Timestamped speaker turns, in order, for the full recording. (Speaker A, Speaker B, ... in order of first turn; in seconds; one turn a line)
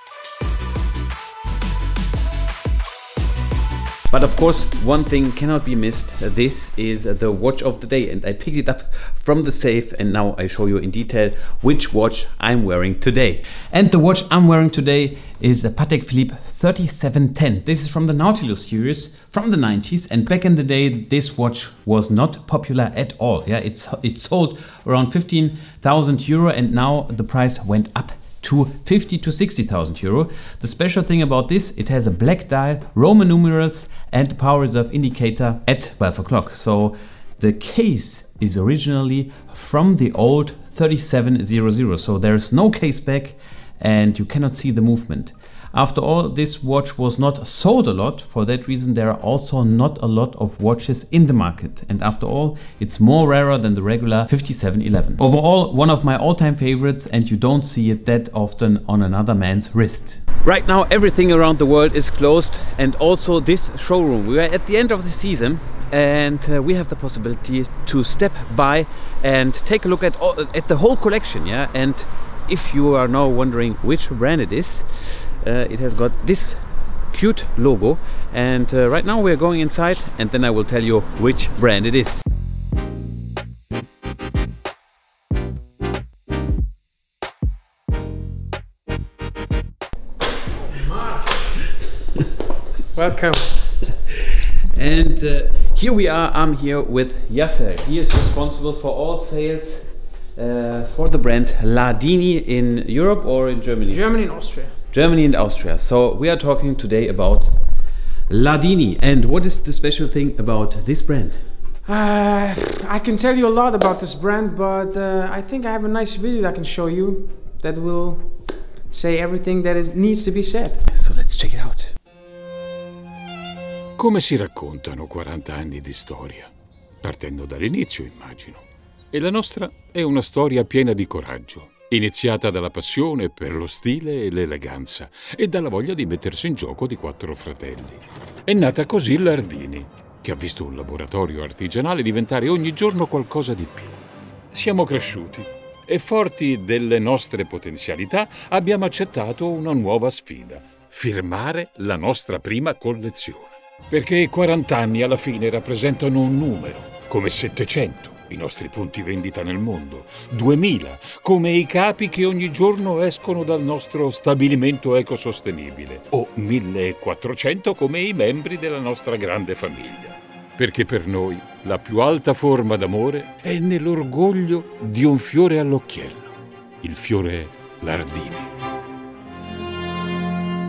Speaker A: 4.1-82.2
Speaker B: 90.6-91.5
Speaker B: 92.9-93.5
Speaker A: 94.7-104.1
Speaker B: 103.9-104.7
Speaker A: 104.9-107.5
Speaker A: 108.3-111.4
Speaker B: 111.8-120.8
Speaker A: 120.9-121.9
Speaker C: 124.0-126.5
Speaker C: 127.0-144.0
Speaker C: 144.5-178.5